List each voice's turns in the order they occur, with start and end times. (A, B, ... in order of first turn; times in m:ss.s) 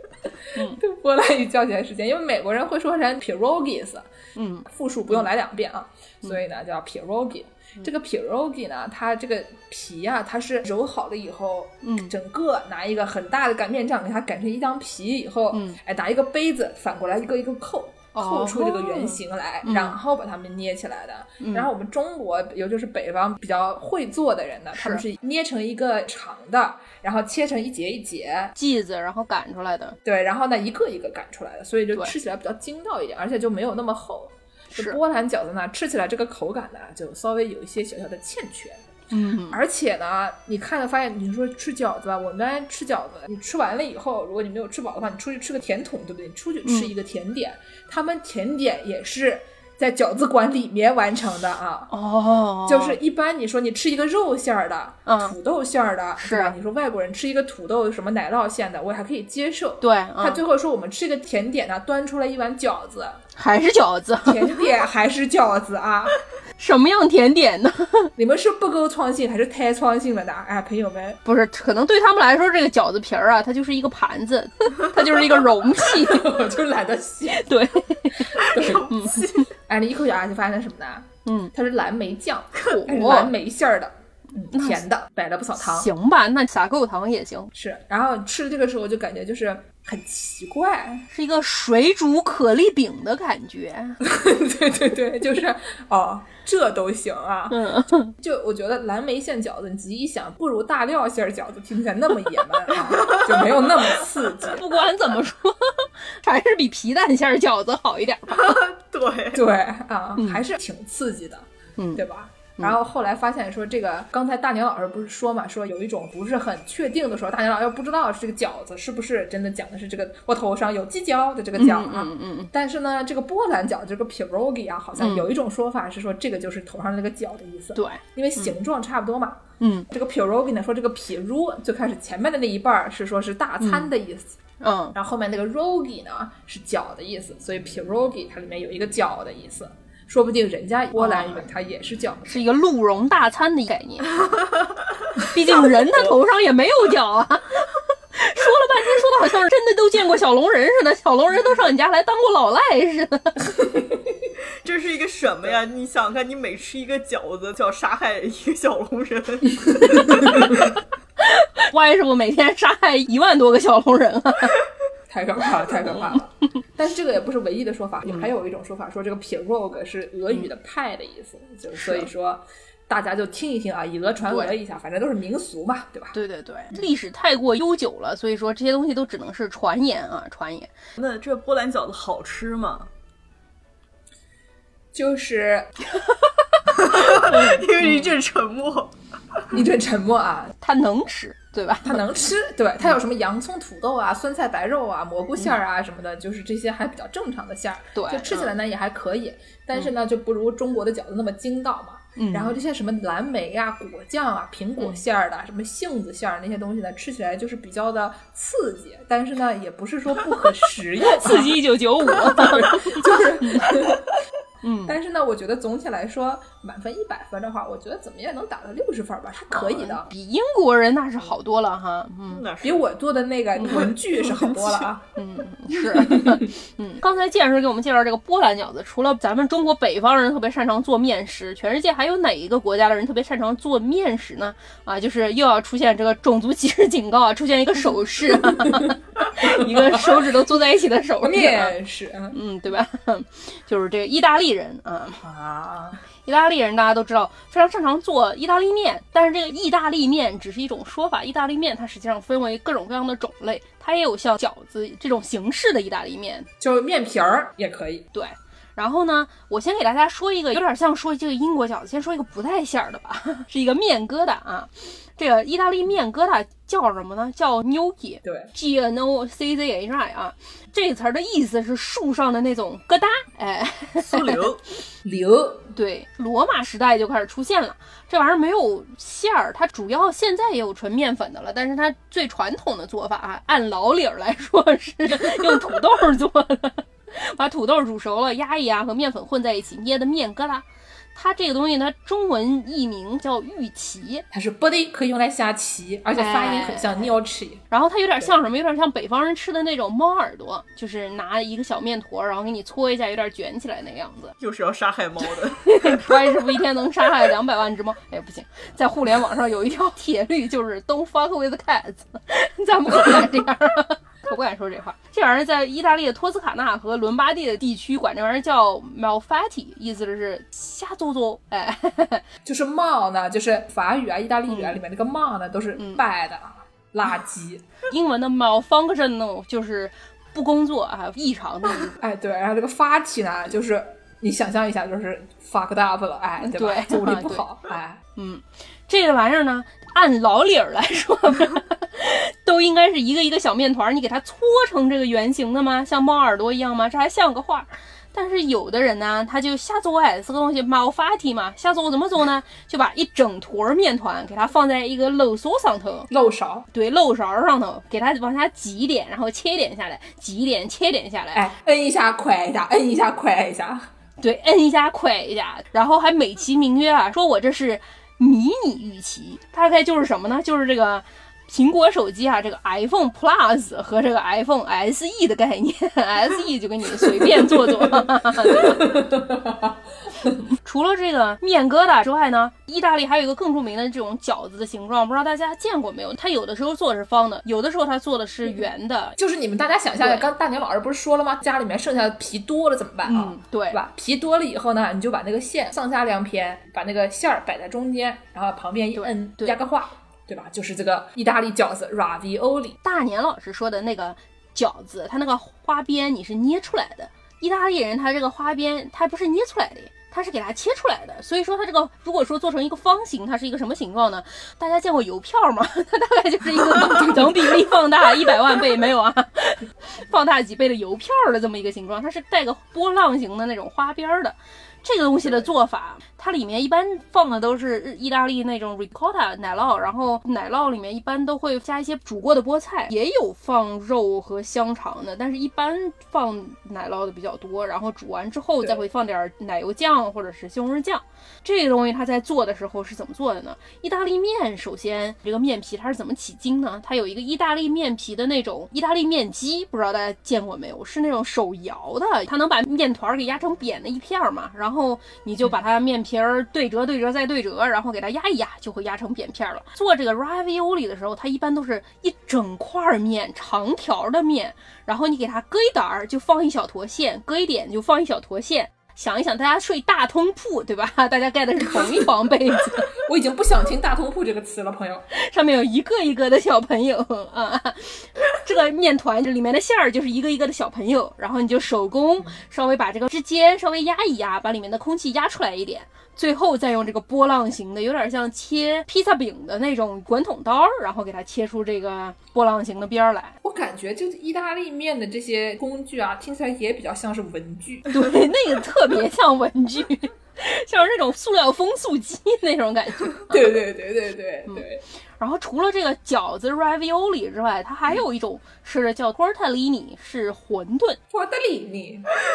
0:00.5-0:00.8 A
0:00.8-0:04.1 B
0:04.4-0:05.3 A
0:04.6-0:28.5 B
0:11.8-0:12.1 A
0:15.5-0:15.8 A
0:18.1-0:20.0 A
0:21.4-0:21.7 A
0:24.7-0:25.0 A
0:28.6-0:30.0 A
0:30.0-0:38.8 B
0:34.7-0:35.0 A
0:39.1-0:39.6 A
0:39.5-0:51.9 B
0:46.6-0:46.9 A
0:51.9-0:53.0 A
0:52.6-1:03.2 B
0:55.1-0:55.3 A
0:56.2-0:56.5 A
0:59.8-1:00.4 A
1:03.4-1:04.6 A
1:04.2-1:06.2 B
1:06.6-1:08.1 A
1:08.2-1:11.2 B
1:11.2-1:16.4 A
1:15.8-1:17.5 B
1:17.3-1:19.4 A
1:18.1-1:18.9 B
1:18.6-1:19.5 C
1:19.7-1:25.9 B
1:21.2-1:21.5 A
1:22.7-1:23.3 A
1:24.5-1:24.8 A
1:25.6-1:27.5 A
1:27.5-1:31.0 B
1:31.1-1:34.0 A
1:34.0-1:37.6 B
1:37.5-1:38.1 A
1:38.1-1:44.6 B
1:44.4-1:48.6 A
1:48.3-1:49.4 C
1:49.3-2:14.4 B
1:51.8-1:52.0 A
2:01.6-2:02.5 A
2:05.0-2:05.3 A
2:07.8-2:08.6 A
2:09.6-2:09.9 A
2:13.6-2:13.9 A
2:14.6-2:14.9 A
2:14.9-2:22.3 B
2:20.9-2:21.5 A
2:22.2-2:24.3 A
2:24.2-2:24.5 C
2:25.3-2:33.5 A
2:25.4-2:26.2 C
2:34.6-2:40.4 C
2:39.6-2:40.6 B
2:39.9-2:40.6 A
2:41.2-2:44.6 A
2:45.1-2:56.2 B
2:45.8-2:46.2 A
2:51.7-2:52.1 A
2:54.3-2:54.5 A
2:56.1-3:00.7 A
3:01.0-3:02.9 C
3:04.9-3:05.7 B
3:06.7-3:08.9 C
3:07.1-3:08.1 A
3:09.5-3:10.5 B
3:10.6-3:12.0 A
3:11.8-3:31.6 B
3:17.9-3:18.5 A
3:22.2-3:22.6 A
3:31.1-3:33.9 A
3:32.2-3:34.1 B
3:34.6-3:34.9 A
3:34.8-3:40.1 B
3:39.5-3:42.4 A
3:42.3-3:42.8 C
3:42.6-3:45.0 B
3:43.6-3:44.9 C
3:43.6-3:43.8 A
3:45.2-4:01.7 A
3:45.9-3:46.4 B
3:58.5-4:00.1 B
4:01.2-4:02.4 B
4:02.3-4:05.2 A
4:05.2-4:06.0 B
4:06.2-4:16.5 A
4:16.6-4:18.0 B
4:18.1-4:34.4 A
4:28.2-4:28.5 B
4:34.0-4:34.6 C
4:35.0-4:35.7 B
4:35.7-4:50.6 A
4:51.1-4:54.2 A
4:54.3-4:57.6 B
4:56.2-4:57.2 A
4:57.7-5:04.3 A
5:04.4-5:05.7 C
5:05.6-5:22.2 A
5:22.4-5:27.6 B
5:24.5-5:24.8 A
5:25.8-5:26.0 A
5:27.9-5:32.0 A
5:32.0-5:38.0 B
5:36.4-5:37.4 A
5:38.2-5:56.1 A
5:56.1-5:56.7 B
5:56.7-6:01.4 A
6:01.3-6:03.9 B
6:04.2-6:19.0 A
6:17.2-6:20.4 B
6:20.5-6:29.2 A
6:29.2-6:42.8 B
6:30.0-6:30.3 A
6:33.0-6:33.8 A
6:39.0-6:39.6 A
6:42.8-7:52.9 A
6:56.7-6:57.4 B
7:53.0-7:55.0 B
7:55.1-8:13.4 A
8:13.4-8:18.1 B
8:17.9-8:23.6 A
8:23.2-8:24.8 B
8:25.2-8:31.0 A
8:31.1-8:32.0 B